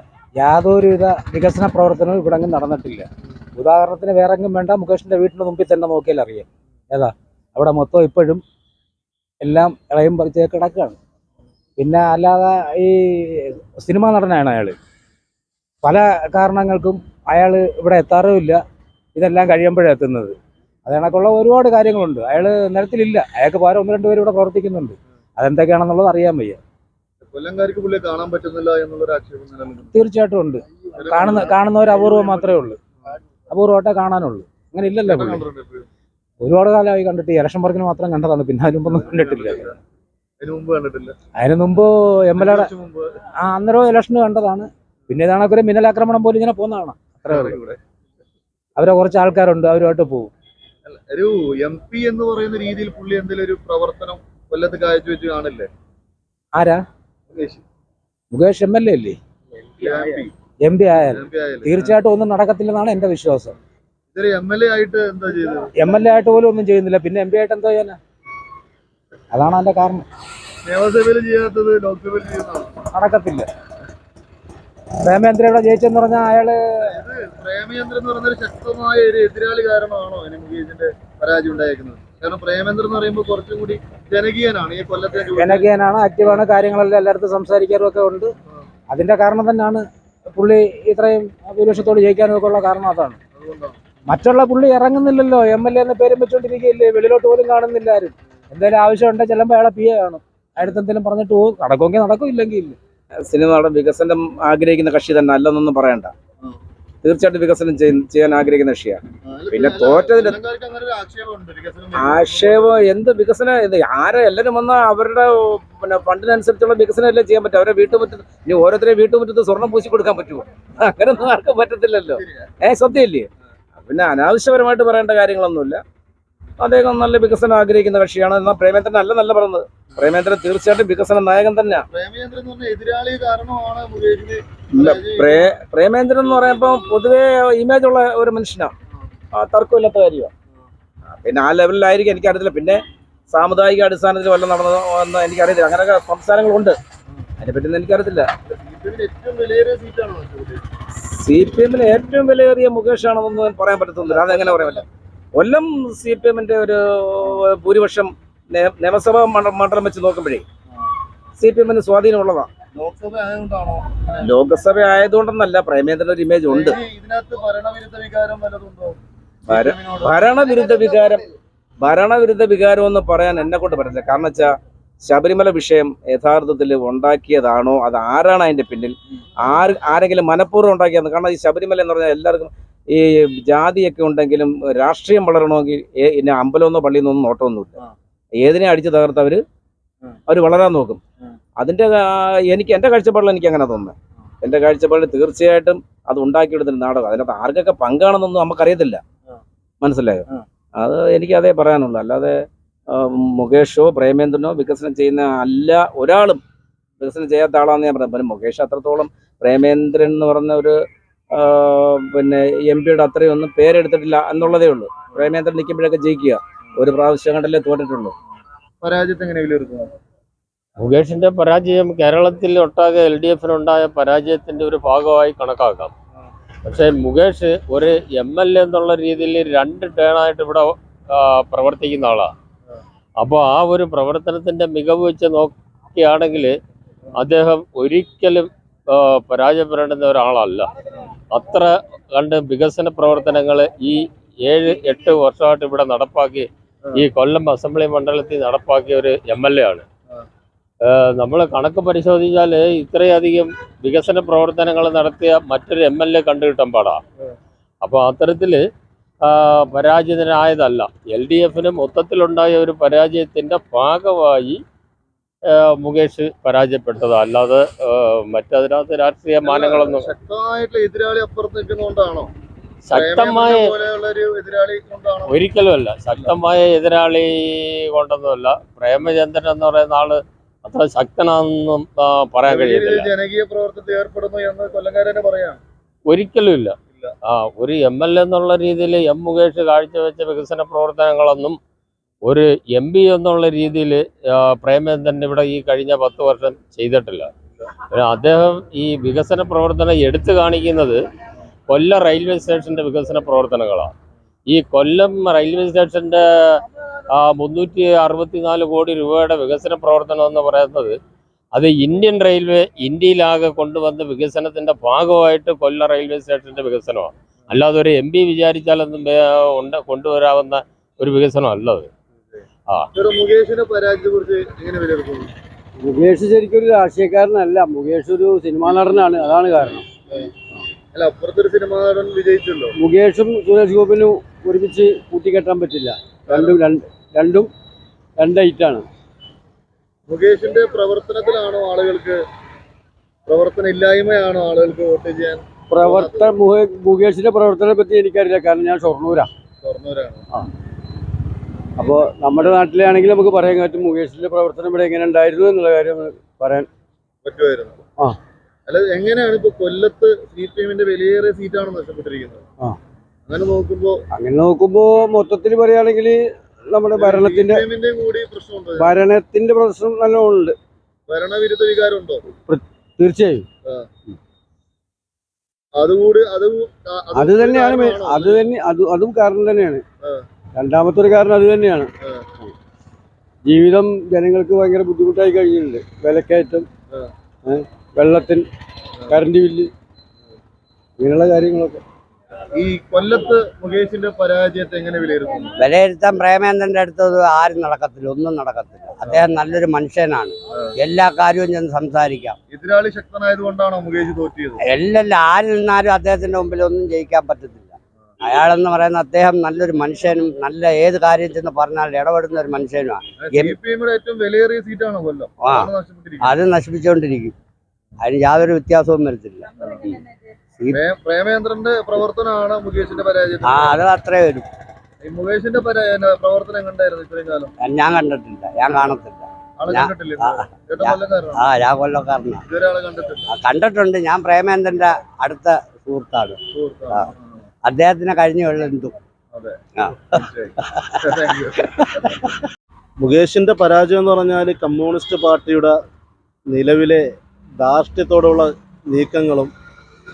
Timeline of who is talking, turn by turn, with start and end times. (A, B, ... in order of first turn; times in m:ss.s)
0:00.4-0:08.4 A
0:09.4-0:11.0 A
0:11.8-0:14.8 A
0:15.8-0:18.6 A
0:19.2-0:20.4 A
0:20.9-0:26.6 A
0:27.3-0:30.0 B
0:29.9-0:32.8 A
0:31.0-0:32.7 B
0:33.5-0:35.4 A
0:35.0-0:35.9 B
0:36.4-0:39.7 A
0:38.8-0:39.8 B
0:40.4-0:41.2 B
0:41.4-0:42.7 A
0:42.3-0:43.1 B
0:43.4-0:47.6 A
0:47.3-0:47.8 B
0:48.8-0:50.3 A
0:50.8-0:55.7 B
0:56.5-0:56.8 A
0:57.3-0:57.6 B
0:58.3-0:59.2 A
0:59.8-1:00.3 B
1:00.6-1:03.5 A
1:01.0-1:02.0 B
1:04.1-1:05.7 B
1:05.8-1:08.0 A
1:09.3-1:10.0 A
1:10.6-1:12.7 B
1:12.9-1:13.5 A
1:15.0-1:17.0 A
1:16.8-1:25.7 B
1:25.3-1:28.3 A
1:28.9-1:33.2 A
1:33.4-1:33.8 B
1:34.1-1:42.8 A
1:43.2-1:46.1 C
1:47.0-1:50.4 C
1:49.2-1:52.8 B
1:51.9-2:03.3 C
2:02.1-2:02.4 B
2:03.8-2:05.8 C
2:06.6-2:11.9 C
2:11.9-2:15.4 B
2:14.7-2:18.7 C
2:19.4-2:20.3 C
2:21.2-2:26.8 C
2:27.4-2:28.3 C
2:28.5-2:30.7 B
2:31.0-2:40.4 C
2:34.0-2:34.8 B
2:41.4-2:42.5 C
2:42.7-2:44.5 B
2:44.2-2:46.8 C
2:46.5-2:51.0 B
2:49.5-2:51.2 C
2:51.8-3:07.8 C
3:08.4-3:09.4 C
3:10.3-3:11.0 C
3:11.6-3:19.0 C
3:19.8-3:20.2 C
3:20.8-3:22.4 C
3:22.9-3:26.4 C
3:27.0-3:30.8 C
3:31.3-3:38.1 C
3:38.8-3:39.9 B
3:40.8-3:45.9 D
3:46.6-3:52.3 D
3:53.2-3:56.6 D
3:57.2-4:00.7 D
4:01.3-4:09.8 D
4:10.9-4:17.0 D
4:17.8-4:18.6 D
4:19.2-4:24.6 D
4:25.6-4:30.1 D
4:29.4-4:32.3 B
4:32.9-4:33.7 D
4:32.9-4:35.4 B
4:35.2-4:43.1 D
4:42.5-4:45.6 B
4:46.1-4:46.8 D
4:47.3-4:51.6 D
4:52.2-4:57.3 D
4:57.9-5:01.0 D
5:01.7-5:03.9 D
5:04.5-5:10.9 D
5:11.5-5:21.9 D
5:22.9-5:25.3 B
5:25.8-5:29.8 E
5:30.9-5:32.7 B
5:32.7-5:37.5 E
5:36.3-5:36.5 B
5:38.2-5:38.9 E
5:40.1-5:42.2 B
5:43.3-5:46.3 B
5:45.7-5:49.3 E
5:49.6-5:50.2 B
5:51.8-5:56.7 E
5:57.2-5:57.8 B
5:58.7-6:02.4 B
6:03.3-6:04.0 B
6:04.1-6:07.7 E
6:06.9-6:09.0 B
6:08.8-6:10.6 E
6:11.1-6:12.2 B
6:12.4-6:13.4 E
6:15.8-6:18.4 B
6:17.1-6:19.8 E
6:20.5-6:21.9 E
6:23.4-6:26.7 E
6:27.4-6:28.4 E
6:29.1-6:29.7 E
6:31.0-6:31.8 E
6:32.6-6:35.6 B
6:35.6-6:42.4 F
6:42.5-6:44.6 B
6:44.6-6:53.6 F
6:53.2-6:56.2 B
6:55.4-6:57.3 F
6:58.0-7:00.0 F
7:00.6-7:00.8 F
7:00.8-7:03.7 B
7:03.4-7:04.5 F
7:05.0-7:07.5 B
7:07.6-7:12.5 F
7:09.6-7:11.4 B
7:12.5-7:13.3 B
7:13.3-7:17.1 F
7:16.5-7:17.4 B
7:17.6-7:19.0 F
7:19.3-7:19.6 B
7:19.8-7:22.2 F
7:20.1-7:20.5 B
7:21.0-7:21.9 B
7:23.0-7:25.8 G
7:26.5-7:27.1 G
7:27.6-7:29.5 G